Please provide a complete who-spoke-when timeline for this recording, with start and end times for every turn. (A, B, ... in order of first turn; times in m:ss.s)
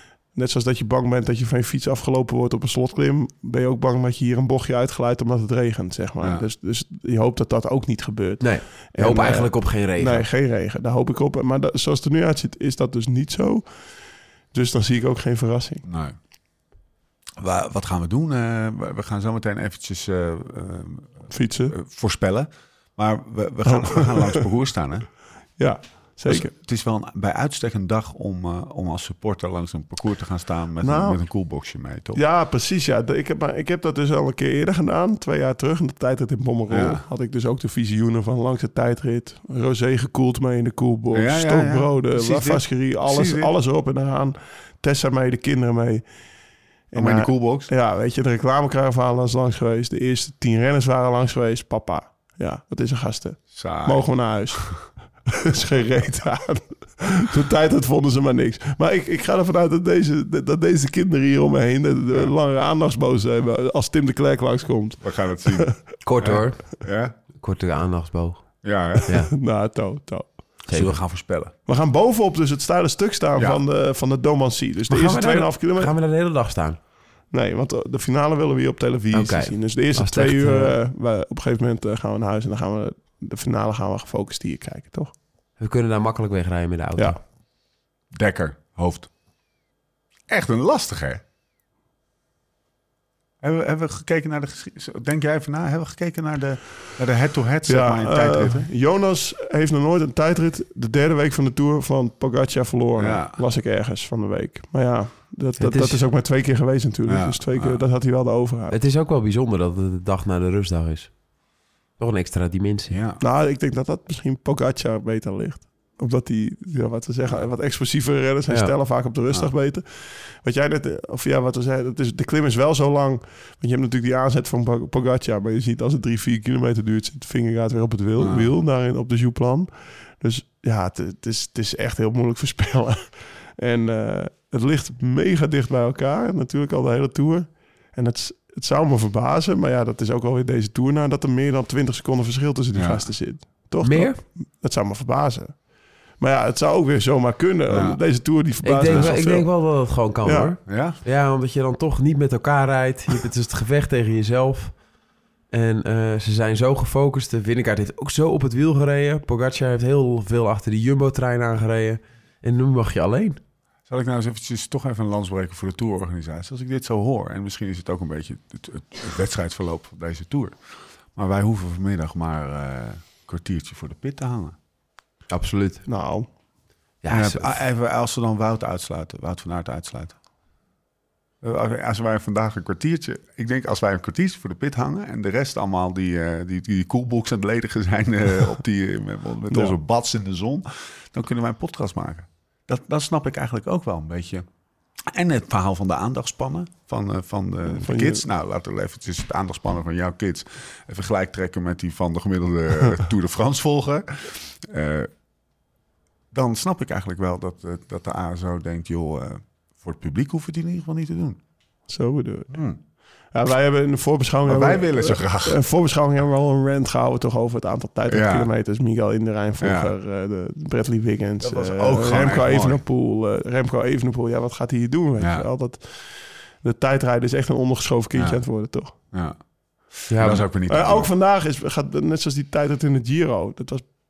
0:00.3-0:13.7 A
0:06.2-0:06.4 B
0:08.4-0:10.2 C
0:14.5-0:15.8 A
0:15.8-0:16.1 B
0:17.4-0:25.1 B
0:21.3-0:21.8 A
0:23.6-0:24.4 A
0:25.6-0:26.5 A
0:26.2-0:32.2 B
0:30.8-0:31.2 A
0:32.1-0:46.0 A
0:36.7-0:37.0 B
0:41.1-0:43.5 B
0:46.9-1:05.8 A
0:46.9-0:47.7 B
0:53.5-0:54.1 B
1:05.0-1:07.1 B
1:06.0-1:06.7 C
1:07.4-1:08.5 C
1:08.6-1:09.1 B
1:09.0-1:10.4 A
1:10.6-1:11.0 C
1:10.7-1:11.5 B
1:11.6-1:15.9 A
1:14.9-1:16.8 C
1:17.3-1:25.1 A
1:19.1-1:20.7 C
1:25.6-1:27.2 C
1:28.1-1:29.1 B
1:30.3-1:31.2 B
1:33.4-1:38.7 B
1:37.6-1:48.8 A
1:43.0-1:43.4 B
1:45.6-1:46.0 C
1:47.1-1:47.8 B
1:48.7-1:51.1 C
1:52.0-1:53.0 C
1:52.9-1:53.2 B
1:53.2-2:25.5 A
2:08.2-2:08.5 B
2:22.7-2:23.1 B
2:23.8-2:24.2 C
2:26.2-2:29.5 A
2:27.7-2:28.0 B
2:28.6-2:34.7 C
2:28.8-2:29.1 B
2:30.2-2:30.5 A
2:30.7-2:31.0 B
2:35.5-2:43.4 C
2:43.9-2:50.5 B
2:51.1-2:54.5 B
2:55.3-2:55.8 C
2:55.8-2:56.3 A
2:57.0-2:57.6 C
2:57.1-3:00.1 B
3:01.4-3:14.4 B
3:09.5-3:09.8 A
3:15.1-3:25.1 B
3:17.7-3:18.2 A
3:26.3-3:31.4 B
3:31.9-3:32.6 A
3:32.5-3:32.8 B
3:33.3-3:48.9 A
3:34.4-3:35.6 B
3:38.1-3:38.5 B
3:39.6-3:39.9 B
3:41.4-3:42.8 B
3:45.2-3:45.5 B
3:48.1-3:48.4 B
3:49.1-3:49.4 B
3:50.0-3:51.1 B
3:50.1-3:50.5 C
3:50.7-3:53.9 A